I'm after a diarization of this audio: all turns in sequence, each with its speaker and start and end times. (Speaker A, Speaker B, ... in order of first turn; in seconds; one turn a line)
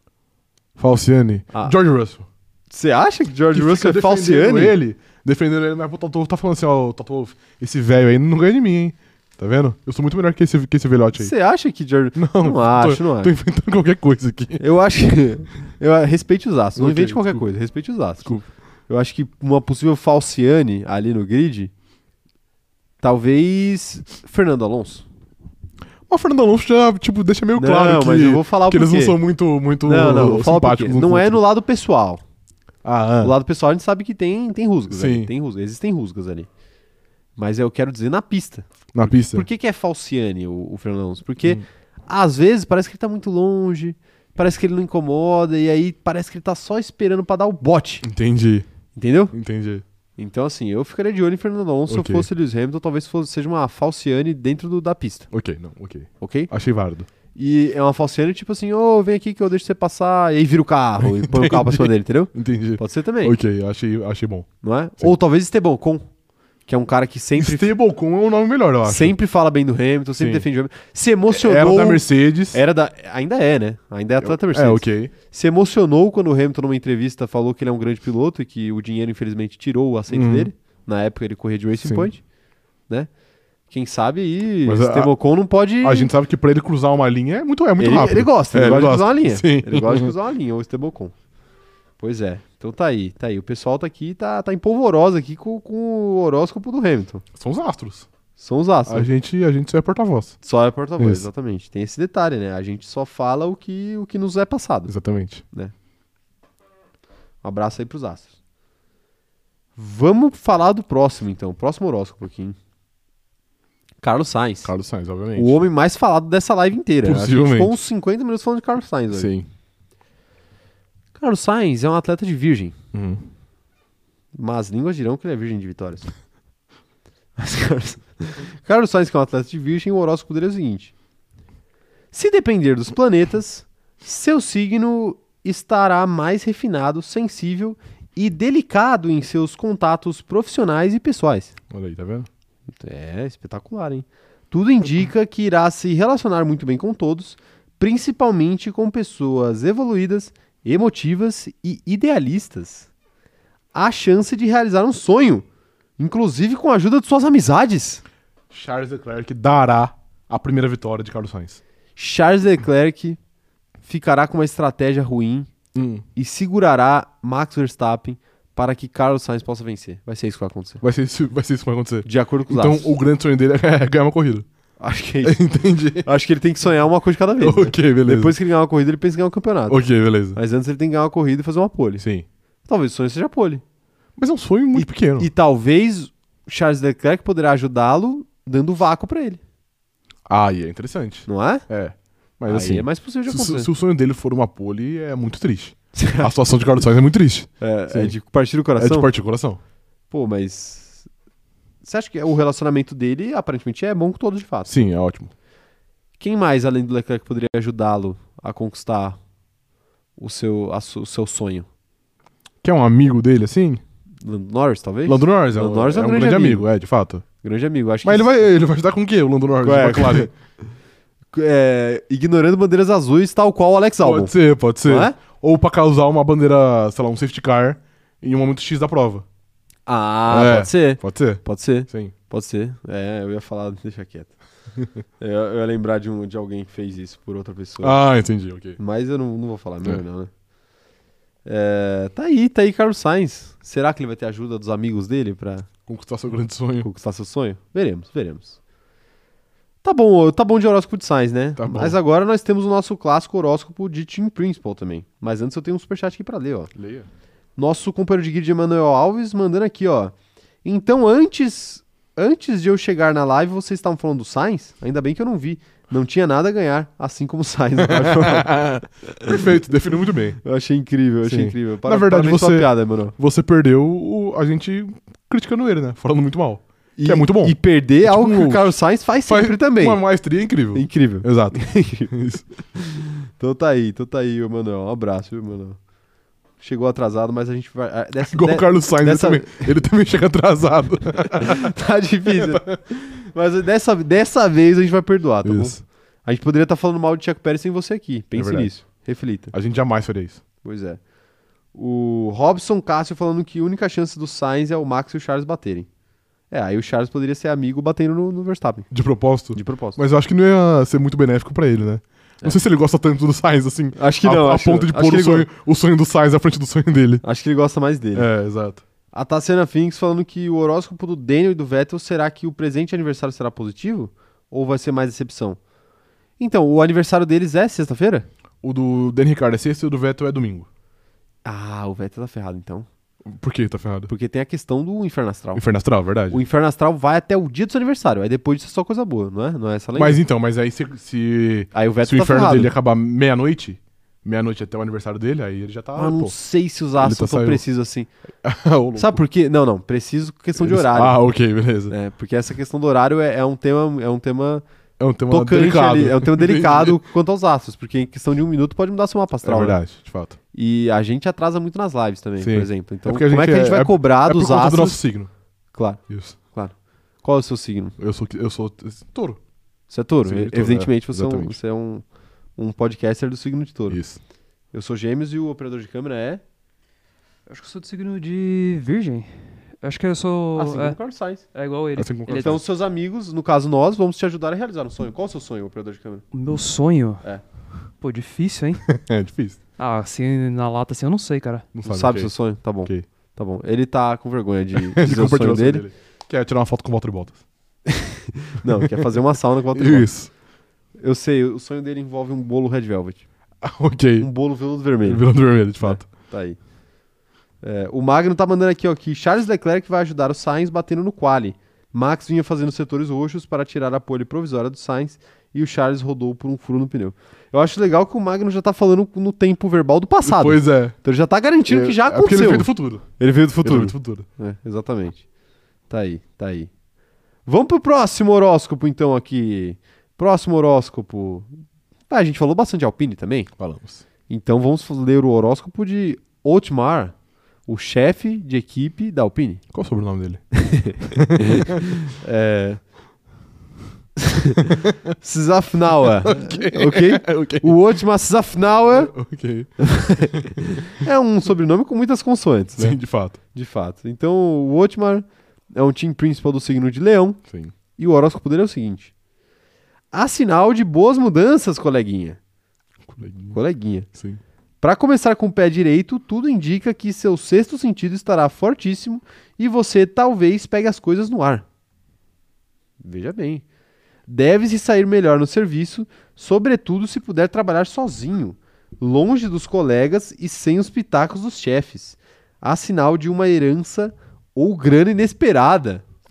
Speaker A: 0.8-2.2
Speaker B: 2.7-4.7
Speaker A: 3.5-11.3
Speaker B: 11.2-13.3
Speaker A: 12.2-14.6
Speaker B: 14.6-18.3
Speaker A: 16.7-17.4
Speaker B: 18.9-21.7
Speaker B: 23.0-25.1
Speaker A: 26.1-31.4
Speaker B: 27.6-29.2
Speaker B: 29.8-32.2
Speaker A: 32.8-33.3
Speaker B: 33.2-36.5
Speaker A: 34.9-35.3
Speaker B: 37.4-48.0
Speaker A: 38.9-39.5
Speaker A: 48.0-48.6
Speaker B: 49.0-49.3
Speaker A: 49.3-49.8
Speaker B: 50.2-55.3
Speaker A: 51.9-52.3
Speaker A: 55.3-57.1
Speaker B: 56.2-56.5
Speaker B: 57.3-63.4
Speaker A: 61.0-65.1
Speaker B: 64.6-66.0
Speaker B: 66.7-67.7
Speaker A: 67.4-69.1
Speaker B: 68.8-82.2
Speaker A: 70.2-70.5
Speaker A: 71.3-72.6
Speaker A: 74.2-75.1
Speaker A: 80.1-80.5
Speaker A: 81.8-82.1
Speaker B: 83.7-86.1
Speaker A: 84.6-85.1
Speaker A: 85.8-90.1
Speaker B: 87.8-91.1
Speaker B: 92.0-97.2
Speaker A: 97.3-98.1
Speaker B: 98.4-99.1
Speaker A: 98.9-100.3
Speaker B: 100.4-104.9
Speaker A: 101.0-101.2
Speaker A: 104.9-105.4
Speaker B: 107.4-108.3
Speaker B: 109.8-112.5
Speaker B: 114.0-114.7
Speaker A: 114.6-115.7
Speaker B: 115.3-119.3
Speaker A: 117.0-117.7
Speaker A: 119.1-119.5
Speaker B: 121.1-122.7
Speaker A: 122.9-123.2
Speaker B: 124.3-126.1
Speaker B: 127.4-130.9
Speaker B: 132.1-141.5
Speaker A: 141.7-142.3
Speaker B: 142.8-152.9
Speaker B: 153.7-155.4
Speaker B: 156.0-158.0
Speaker A: 158.5-161.6
Speaker B: 161.9-163.2
Speaker B: 163.8-165.5
Speaker A: 165.7-166.0
Speaker B: 166.1-170.8
Speaker A: 170.8-174.4
Speaker B: 172.0-172.9
Speaker B: 174.8-175.4
Speaker A: 175.2-176.1
Speaker B: 176.0-182.0
Speaker A: 177.4-178.3
Speaker A: 179.7-180.4
Speaker A: 182.0-182.2
Speaker B: 182.7-183.6
Speaker A: 184.2-185.3
Speaker B: 184.7-189.4
Speaker A: 190.3-198.1
Speaker B: 191.3-191.7
Speaker B: 192.5-193.7
Speaker B: 195.9-196.3
Speaker B: 197.6-199.1
Speaker A: 198.8-199.6
Speaker B: 200.1-201.1
Speaker B: 201.8-204.8
Speaker A: 204.7-205.3
Speaker B: 206.2-209.2
Speaker B: 210.2-211.7
Speaker A: 212.6-213.8
Speaker B: 214.2-216.6
Speaker A: 215.1-217.2
Speaker B: 217.4-218.3
Speaker A: 218.0-220.3
Speaker B: 219.6-220.3
Speaker B: 221.3-224.3
Speaker A: 224.0-229.2
Speaker B: 224.8-225.2
Speaker B: 229.9-234.3
Speaker A: 230.3-232.1
Speaker B: 235.2-238.0
Speaker A: 237.8-238.8
Speaker B: 238.8-240.3
Speaker B: 241.4-245.7
Speaker A: 245.9-246.9
Speaker B: 246.8-248.6
Speaker B: 249.8-256.7
Speaker A: 251.6-252.0
Speaker A: 256.8-257.1
Speaker B: 257.6-260.1
Speaker B: 260.6-268.6
Speaker A: 267.8-270.4
Speaker B: 269.1-269.4
Speaker B: 270.4-273.1
Speaker A: 271.2-278.7
Speaker B: 276.9-280.0
Speaker A: 279.3-282.4
Speaker B: 280.7-282.1
Speaker B: 282.7-285.8
Speaker B: 286.6-289.7
Speaker A: 288.3-291.7
Speaker B: 291.3-299.5
Speaker A: 292.4-292.8
Speaker A: 295.4-295.8
Speaker A: 298.3-298.7
Speaker A: 299.5-300.4
Speaker B: 300.6-301.0
Speaker B: 301.7-305.9
Speaker B: 306.5-308.9
Speaker A: 308.9-317.2
Speaker B: 309.5-310.0
Speaker B: 313.9-315.5
Speaker B: 317.2-318.3
Speaker A: 318.1-318.8
Speaker B: 319.1-325.6
Speaker B: 326.4-328.3
Speaker A: 328.6-330.7
Speaker B: 331.4-332.9
Speaker A: 333.3-334.1
Speaker B: 334.1-335.6
Speaker A: 335.5-336.4
Speaker B: 336.3-340.2
Speaker A: 339.9-346.3
Speaker B: 341.7-342.7
Speaker B: 345.9-348.1
Speaker A: 347.0-347.6
Speaker A: 348.4-349.2
Speaker B: 348.9-351.2
Speaker A: 350.6-351.9
Speaker B: 351.9-354.6
Speaker A: 355.0-357.0
Speaker B: 355.3-359.8
Speaker A: 359.4-360.4
Speaker B: 360.5-365.0
Speaker A: 362.4-365.3
Speaker B: 365.7-366.0
Speaker A: 366.1-366.4
Speaker B: 366.5-367.9
Speaker A: 368.0-369.4
Speaker B: 369.9-372.0
Speaker A: 370.2-371.6
Speaker B: 372.6-374.0
Speaker A: 373.9-374.2
Speaker B: 374.7-376.4
Speaker C: 377.5-381.0
Speaker B: 380.5-381.4
Speaker C: 381.5-382.6
Speaker A: 381.9-382.6
Speaker B: 382.3-386.2
Speaker C: 386.3-387.2
Speaker C: 388.0-388.9
Speaker A: 388.9-389.6
Speaker C: 389.8-391.7
Speaker A: 391.7-392.3
Speaker B: 391.8-395.8
Speaker A: 394.7-397.4
Speaker B: 397.9-400.1
Speaker A: 398.8-399.1
Speaker A: 399.7-400.3
Speaker B: 401.0-403.2
Speaker A: 403.6-404.3
Speaker B: 404.2-405.3
Speaker A: 405.0-406.1
Speaker B: 405.8-406.6
Speaker B: 407.6-425.2
Speaker A: 420.2-420.9
Speaker A: 421.7-423.1
Speaker A: 423.6-424.2
Speaker B: 425.9-426.7
Speaker B: 427.4-431.5
Speaker B: 432.1-433.5
Speaker A: 433.6-434.0
Speaker B: 434.3-437.1
Speaker B: 437.6-439.6
Speaker A: 439.7-440.4
Speaker B: 440.5-442.8
Speaker A: 441.0-442.1
Speaker B: 444.2-449.1
Speaker A: 444.7-445.0
Speaker A: 446.1-447.8
Speaker A: 448.9-450.4
Speaker B: 449.8-453.0
Speaker A: 452.8-453.4
Speaker B: 453.5-457.4
Speaker B: 458.0-459.1
Speaker B: 460.1-462.4
Speaker A: 463.1-463.6
Speaker B: 463.5-464.1
Speaker A: 464.1-464.4
Speaker B: 464.8-471.6
Speaker B: 473.0-473.6
Speaker B: 474.3-486.0